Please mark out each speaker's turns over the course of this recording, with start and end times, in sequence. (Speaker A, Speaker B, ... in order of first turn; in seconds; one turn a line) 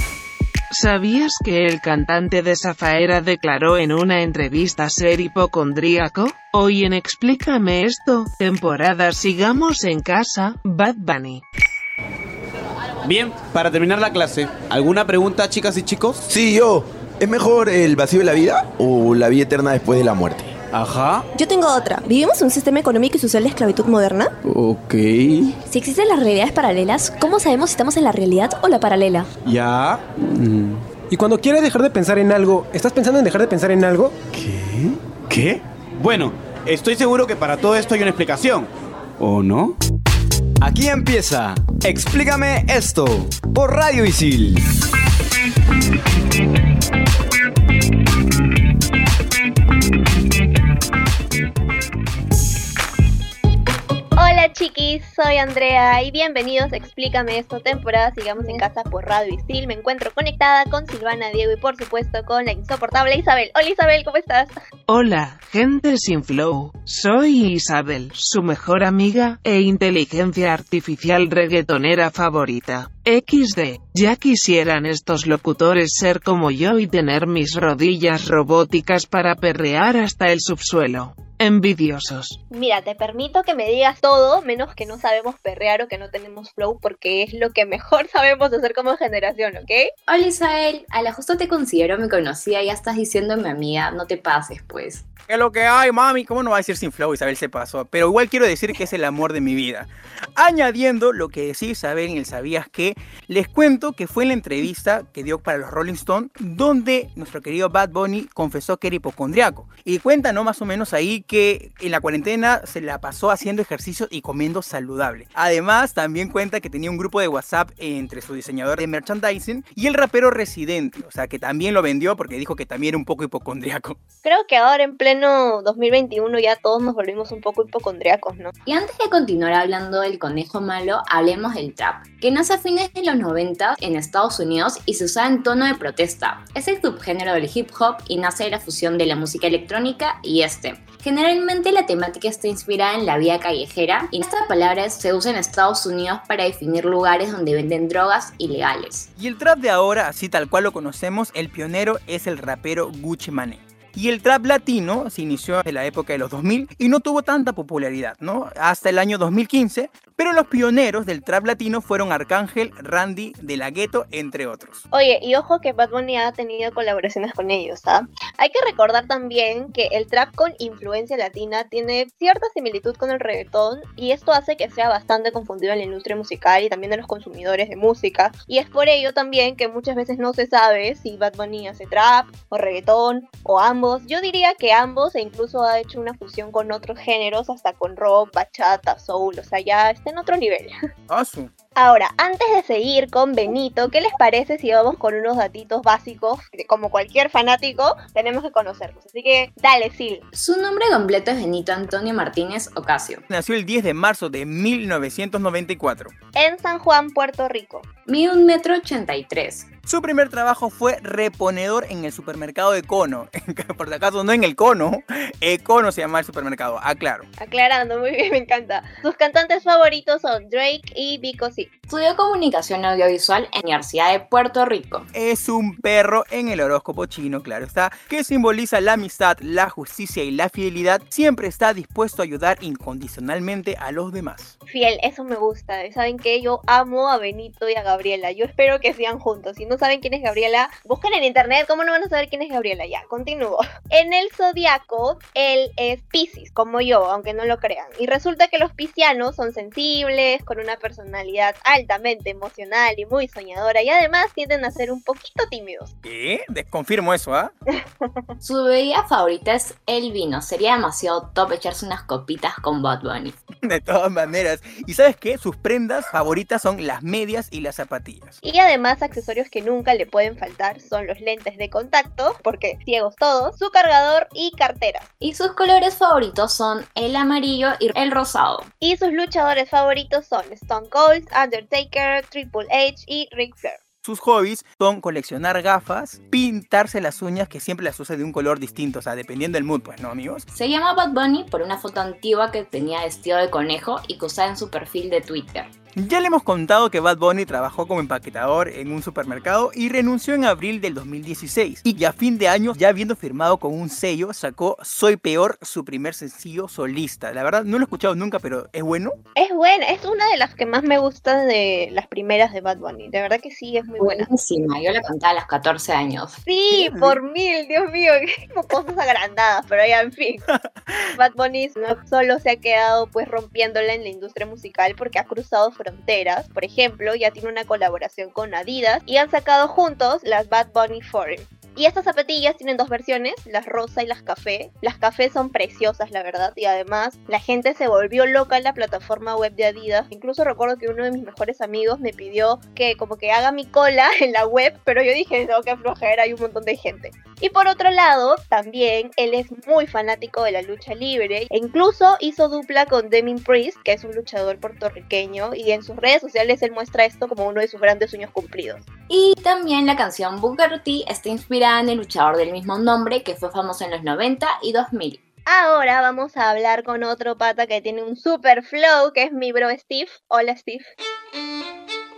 Speaker A: 0.7-11.4
Speaker B: 13.0-16.2
Speaker C: 16.3-20.6
Speaker B: 20.7-21.2
Speaker D: 21.4-24.3
Speaker B: 24.6-25.0
Speaker D: 25.7-29.3
Speaker B: 29.4-30.8
Speaker E: 31.1-34.1
Speaker B: 34.4-39.7
Speaker F: 40.6-44.6
Speaker G: 54.2-64.6
Speaker A: 64.9-82.4
Speaker G: 82.5-89.9
Speaker H: 90.1-95.1
Speaker I: 95.3-124.0
Speaker G: 124.2-128.5
Speaker H: 128.7-149.1
Speaker I: 149.2-164.8
Speaker G: 164.9-190.7
Speaker I: 191.1-191.5
Speaker G: 191.8-200.2
Speaker H: 200.3-203.2
Speaker I: 203.3-206.1
Speaker G: 206.3-207.9
Speaker H: 208.1-209.7
Speaker I: 209.9-217.3
Speaker G: 217.4-221.7
Speaker H: 221.9-225.1
Speaker I: 225.1-234.5
Speaker G: 234.7-255.9
Speaker I: 256.0-257.5
Speaker H: 258.4-263.4
Speaker I: 263.6-268.4
Speaker G: 268.4-275.1
Speaker H: 275.2-278.7
Speaker G: 278.8-283.8
Speaker I: 284.0-290.5
Speaker H: 290.5-295.7
Speaker I: 296.0-309.2
Speaker G: 309.4-314.3
Speaker H: 314.0-316.3
Speaker G: 316.5-320.4
Speaker I: 316.7-317.2
Speaker I: 320.5-321.1
Speaker G: 321.2-358.8
Speaker H: 359.1-365.2
Speaker G: 365.5-370.9